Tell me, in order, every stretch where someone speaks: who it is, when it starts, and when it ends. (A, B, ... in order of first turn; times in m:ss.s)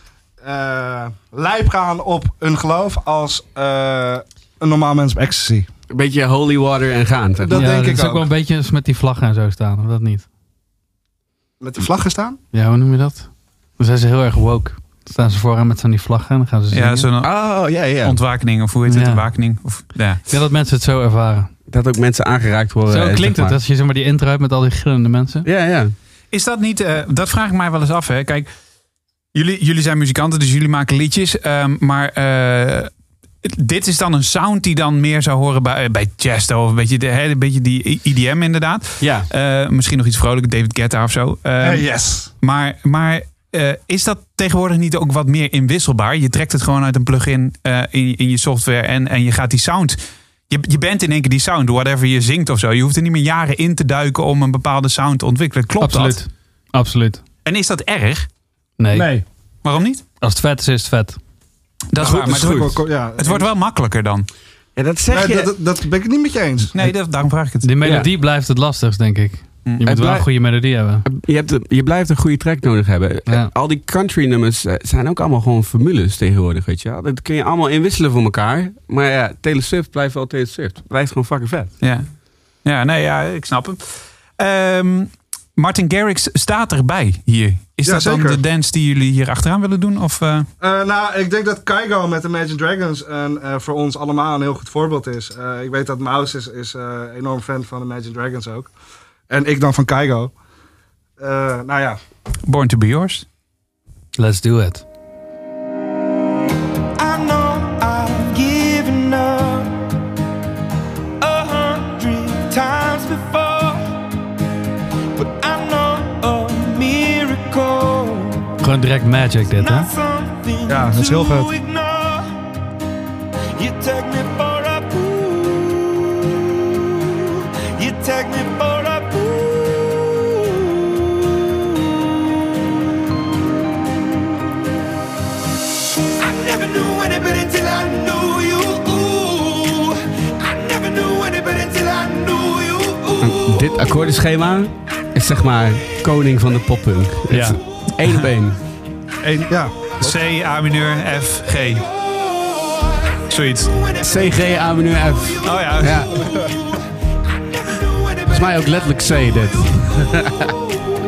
0:00.4-0:05.7 A
0:05.9-0:07.6 B
0:07.4-0:08.3 A
0:07.5-0:10.2 C
0:11.6-0:12.4 A
0:12.5-0:17.1 C
0:16.7-0:17.3 D
0:17.2-0:18.2 B
0:18.0-0:20.2 D
0:18.8-0:19.3 C
0:20.3-0:21.5 C
0:21.7-0:23.6 B
0:22.9-0:25.5 C
0:25.4-0:25.9 B
0:26.3-0:28.5 D
0:29.3-0:32.9 D
0:33.4-0:56.2 D
0:39.0-0:39.3 B
0:41.6-0:42.3 A
0:55.8-0:57.2 C
0:57.4-0:58.3 D
0:58.8-0:59.1 C
0:58.9-0:59.2 A
0:59.6-1:00.0 D
1:00.2-1:01.2 C
1:01.9-1:04.3 D
1:02.0-1:03.5 A
1:04.8-1:05.5 B
1:05.1-1:06.8 A
1:06.7-1:08.0 D
1:07.6-1:11.0 C
1:07.8-1:08.1 B
1:09.8-1:10.3 B
1:11.0-1:21.7 B
1:21.8-1:22.1 D
1:22.6-1:30.5 D
1:27.8-1:28.4 A
1:30.6-1:38.7 A
1:39.3-1:40.3 A
1:41.2-1:42.0 A
1:42.4-1:43.2 D
1:44.2-1:44.8 C
1:47.0-1:49.7 E
1:51.2-1:53.9 E
1:55.2-1:58.4 E
1:58.6-1:59.9 C
1:59.5-2:02.3 E
2:00.7-2:01.5 A
2:03.6-2:06.3 E
2:07.0-2:12.0 E
2:16.2-2:23.9 E
2:23.2-2:28.6 B
2:27.3-2:27.6 C
2:29.2-2:30.2 A
2:30.0-2:31.8 D
2:32.4-2:33.2 E
2:33.3-2:33.8 D
2:33.9-2:34.6 E
2:34.0-2:36.2 B
2:35.4-2:36.2 D
2:36.1-2:36.6 E
2:38.0-2:38.4 E
2:38.3-2:40.6 B